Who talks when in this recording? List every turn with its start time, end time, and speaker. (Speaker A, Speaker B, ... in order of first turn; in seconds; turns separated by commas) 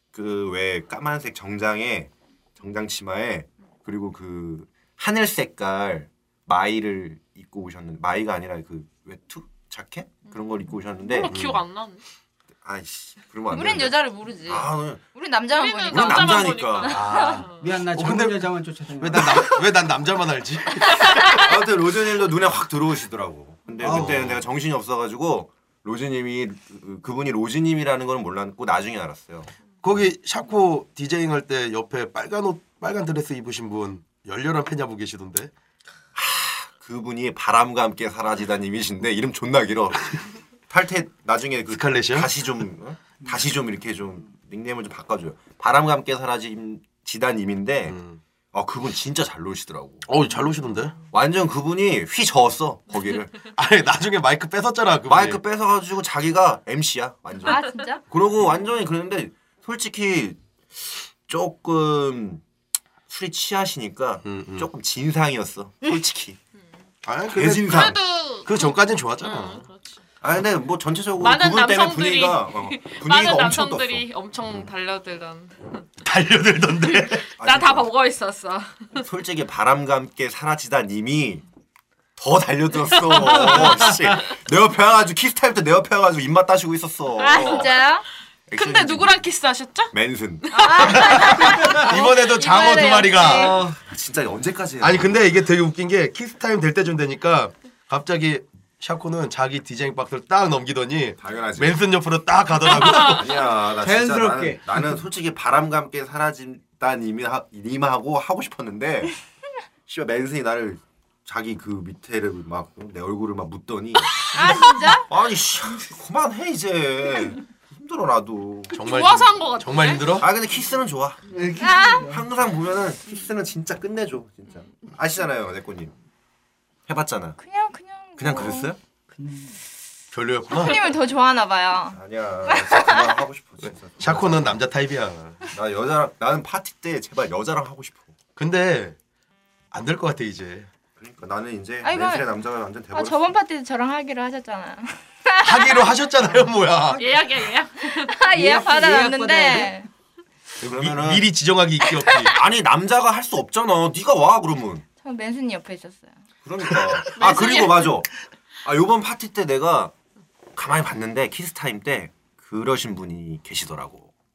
Speaker A: 0.1-11.3, Speaker B: 10.3-12.0, Speaker C: 11.2-11.6, Speaker A: 12.6-15.0, Speaker D: 13.5-16.7, Speaker B: 15.6-17.7, Speaker A: 15.9-17.0, Speaker C: 16.9-21.2, Speaker E: 17.5-19.4, Speaker D: 21.1-21.4, Speaker A: 21.2-29.5, Speaker E: 23.8-24.4, Speaker C: 23.8-24.4, Speaker C: 29.8-35.5, Speaker A: 36.1-48.0, Speaker C: 41.7-42.3, Speaker C: 47.9-48.2, Speaker A: 48.5-50.0, Speaker C: 50.1-51.0, Speaker A: 51.1-53.5, Speaker C: 53.5-55.4, Speaker A: 55.1-62.4, Speaker D: 57.5-58.0, Speaker A: 63.1-66.4, Speaker C: 64.2-64.7, Speaker C: 67.0-69.7, Speaker A: 67.3-68.0, Speaker B: 67.5-70.0, Speaker A: 70.2-74.0, Speaker B: 71.2-75.8, Speaker C: 76.0-77.3, Speaker B: 77.2-79.0, Speaker A: 77.4-77.9, Speaker A: 79.0-81.4, Speaker A: 82.2-87.8, Speaker B: 82.9-84.2, Speaker B: 87.2-87.8, Speaker D: 87.2-88.1, Speaker A: 88.5-89.2, Speaker B: 88.5-89.9, Speaker A: 89.9-91.7, Speaker B: 90.5-91.5, Speaker D: 90.5-93.7, Speaker C: 91.2-93.6, Speaker E: 91.5-91.8, Speaker E: 93.2-93.8, Speaker A: 93.8-95.2, Speaker C: 94.8-103.3, Speaker A: 101.2-101.8, Speaker A: 102.7-109.2, Speaker E: 103.8-104.8, Speaker A: 109.9-118.8, Speaker D: 114.3-115.1, Speaker C: 118.7-120.3, Speaker B: 118.7-120.2, Speaker A: 120.2-121.2, Speaker E: 121.3-122.2, Speaker D: 121.6-122.1, Speaker A: 122.1-125.9, Speaker A: 126.9-127.4, Speaker D: 127.4-128.7, Speaker A: 128.2-128.8, Speaker E: 129.1-129.6, Speaker C: 130.1-130.9, Speaker D: 130.6-133.2, Speaker A: 131.9-134.6, Speaker C: 133.6-135.4, Speaker A: 135.5-138.1, Speaker C: 138.4-139.0, Speaker C: 139.7-140.7, Speaker A: 141.0-143.3, Speaker D: 141.8-142.3, Speaker D: 142.9-145.9, Speaker C: 145.4-147.2, Speaker B: 146.9-148.2, Speaker D: 147.9-149.9, Speaker E: 148.3-149.8, Speaker C: 150.6-152.3, Speaker A: 150.6-151.3, Speaker D: 151.9-152.3, Speaker A: 152.3-154.8, Speaker D: 155.0-156.1, Speaker A: 156.4-158.1, Speaker C: 156.6-157.1, Speaker B: 157.1-158.0, Speaker A: 158.7-159.9, Speaker A: 160.6-164.1